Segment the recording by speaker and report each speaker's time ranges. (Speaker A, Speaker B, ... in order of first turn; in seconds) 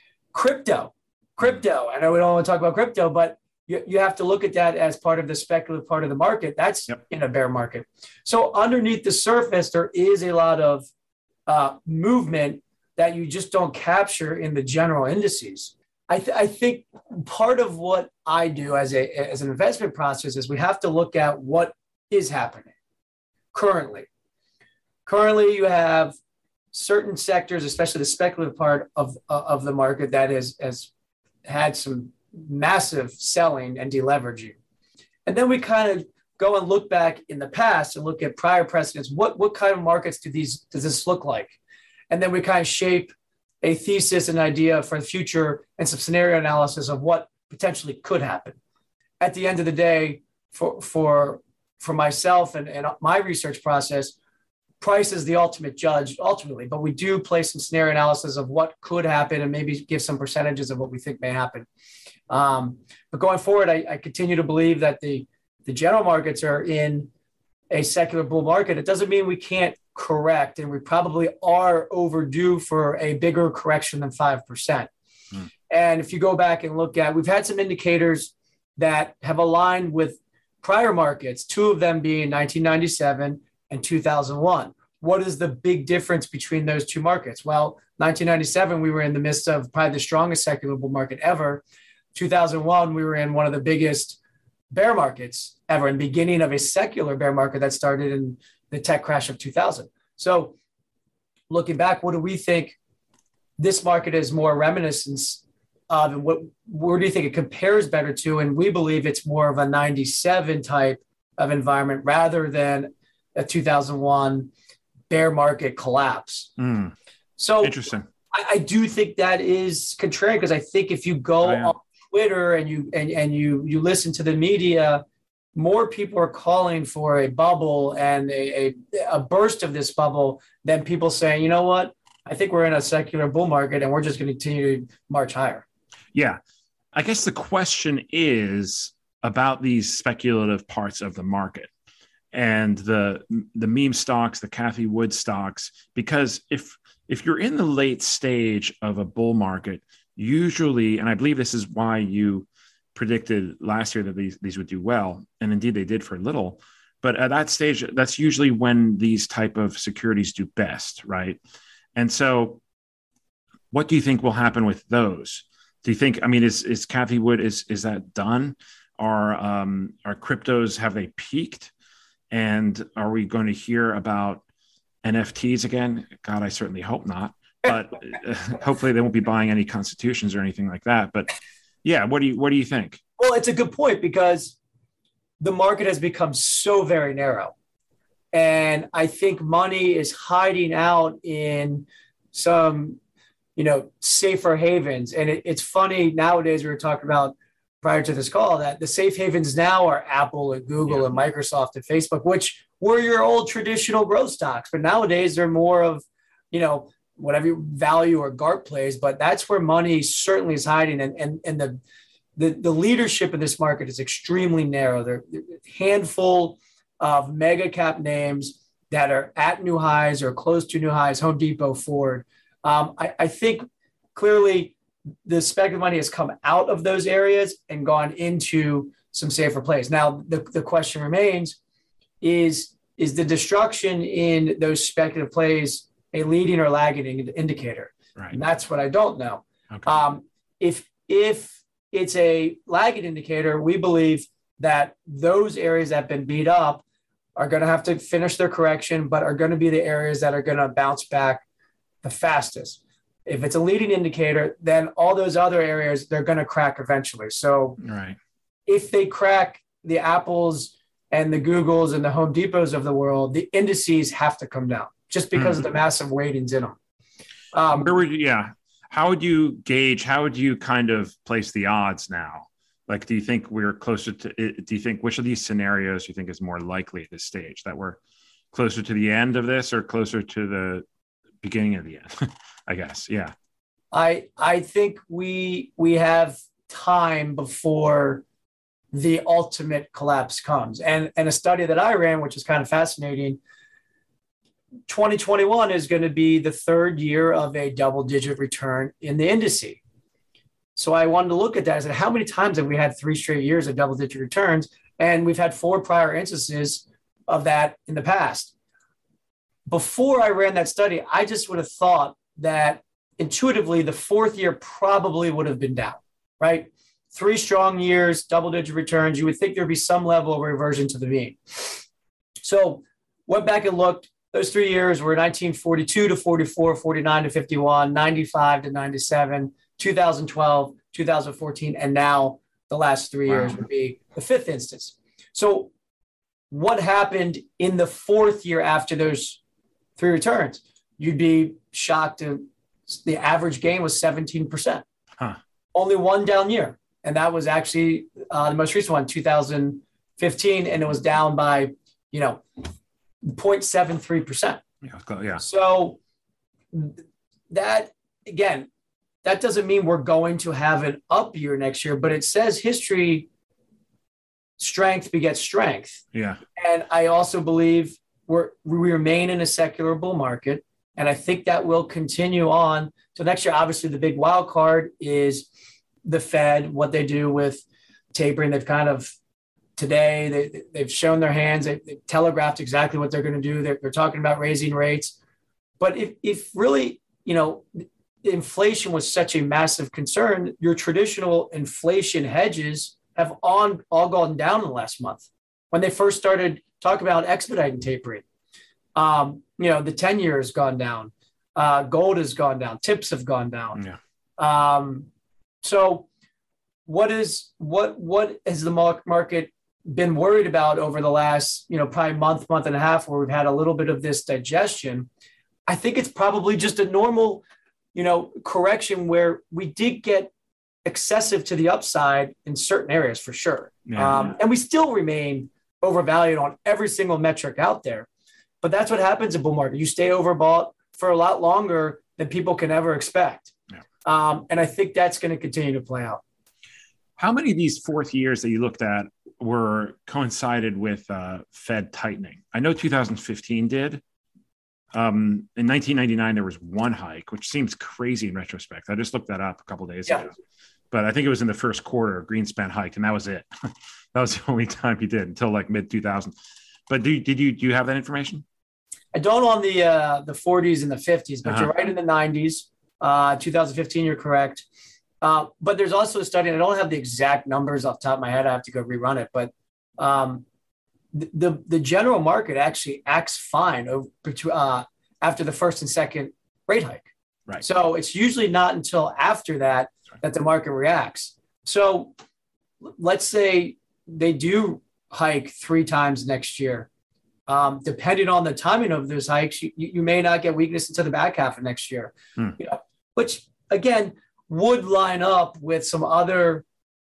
Speaker A: 0.3-10.9, 11.5-22.7, 23.5-24.1, 25.1-26.1, 26.7-30.9, 31.4-34.5, 35.2-41.6, 42.1-43.1, 43.6-48.6, 49.2-54.1, 54.8-61.7, 62.3-67.1, 67.7-74.9, 75.7-91.6, 92.1-94.2, 94.7-100.5, 101.5-102.8, 103.6-114.5, 115.1-116.5, 117.4-125.0, 125.5-135.7, 183.2-184.6, 185.4-187.5, 188.3-193.0, 193.6-211.8, 212.4-224.7, 225.2-231.6, 232.2-246.8, 247.3-251.4, 252.0-257.8, 258.7-266.8, 267.5-267.9, 283.9-288.2, 288.9-293.4, 294.9-299.8, 300.7-308.5, 309.7-321.8, 322.4-335.7, 336.5-339.4, 340.0-344.8, 345.7-352.4, 353.2-354.6, 355.4-356.0, 356.7-357.0, 357.5-358.7, 359.2-363.3, 364.6-366.0, 366.6-375.5, 376.0-379.1, 379.8-385.1, 385.8-398.2, 398.9-403.8, 404.4-405.1, 405.6-406.1, 406.9-415.1, 415.7-417.4, 417.9-420.3, 420.8-428.1, 428.6-433.5, 434.0-436.2, 459.1-464.6, 465.2-470.4, 471.1-477.1, 477.6-482.1, 482.8-486.9, 487.5-496.6
Speaker B: 116.6-116.9, 117.6-118.1, 121.4-121.7, 136.1-136.4, 136.9-141.7, 142.3-161.4, 161.9-162.6, 163.7-171.7, 172.3-174.4, 175.0-181.3, 181.8-183.0, 257.8-258.2, 265.3-265.6, 267.7-278.0, 278.5-280.8, 281.4-283.3, 333.3-333.6, 354.8-355.4, 366.1-366.4, 423.9-424.3, 437.2-444.0, 444.9-450.3, 450.9-453.5, 454.1-456.3, 456.9-458.4